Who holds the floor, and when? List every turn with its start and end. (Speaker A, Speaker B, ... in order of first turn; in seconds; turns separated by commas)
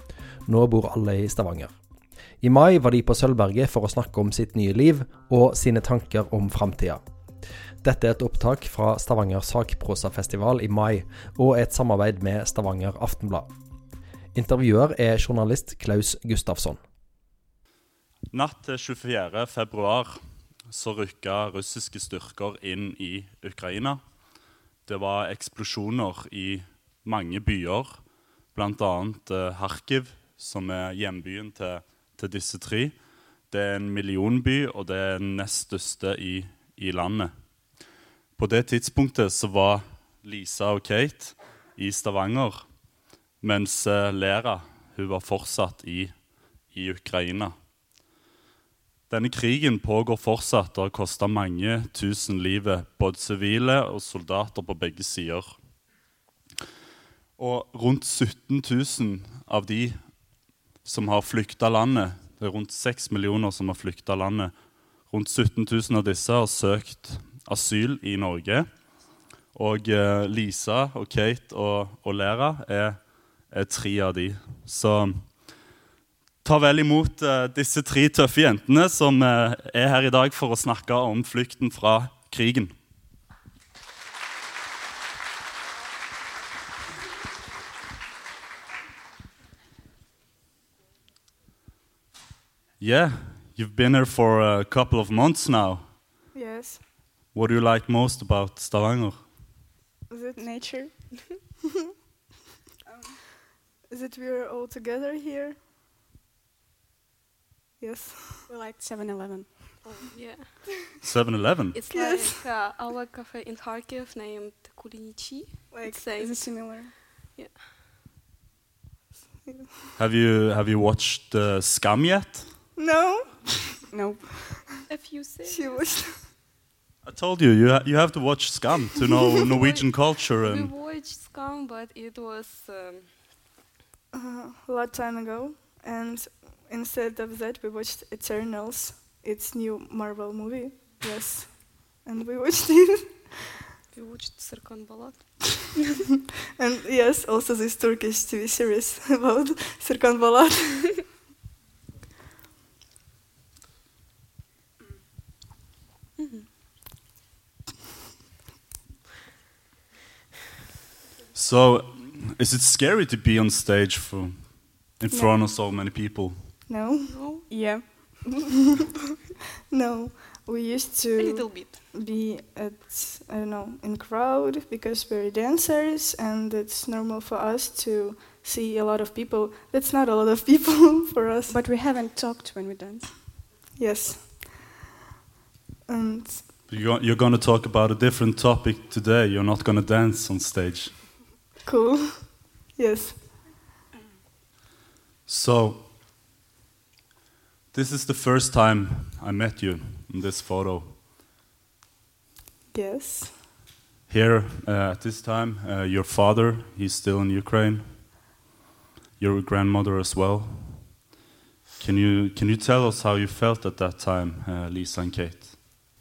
Speaker A: 0.5-1.8, Speaker A: 2.4-7.0, Speaker A: 7.8-13.5, Speaker A: 14.3-16.8, Speaker B: 18.3-24.0, Speaker B: 24.9-33.0, Speaker B: 33.5-37.3, Speaker B: 38.4-42.7, Speaker B: 43.4-47.5, Speaker B: 49.1-55.6, Speaker B: 57.4-68.7, Speaker B: 69.5-75.6, Speaker B: 76.4-82.7, Speaker B: 92.8-95.9, Speaker C: 96.3-96.8, Speaker B: 97.3-99.6, Speaker C: 100.1-101.0, Speaker D: 100.3-101.1, Speaker C: 103.9-105.6, Speaker C: 107.8-108.5, Speaker D: 108.5-109.9, Speaker E: 109.8-110.7, Speaker B: 111.0-111.8, Speaker E: 111.7-117.6, Speaker C: 111.9-112.3, Speaker C: 115.7-116.0, Speaker D: 116.1-116.9, Speaker C: 119.5-119.7, Speaker B: 120.0-122.5, Speaker C: 122.8-123.8, Speaker D: 123.9-124.6, Speaker E: 124.9-126.0, Speaker C: 125.5-126.2, Speaker B: 127.0-130.7, Speaker E: 129.6-133.1, Speaker C: 134.1-143.3, Speaker E: 143.9-145.7, Speaker C: 146.6-151.1, Speaker E: 156.2-156.4, Speaker B: 161.3-166.6, Speaker C: 165.1-165.4, Speaker C: 166.7-167.5, Speaker E: 167.1-167.9, Speaker D: 167.5-168.5, Speaker C: 169.7-181.6, Speaker E: 171.2-171.8, Speaker D: 181.5-183.3, Speaker C: 183.7-184.7, Speaker C: 185.9-186.4, Speaker B: 186.7-191.1, Speaker C: 191.7-193.3, Speaker B: 195.3-195.9, Speaker B: 197.7-201.0, Speaker C: 202.7-203.4, Speaker B: 204.1-208.1, Speaker B: 209.2-211.1, Speaker B: 211.8-215.6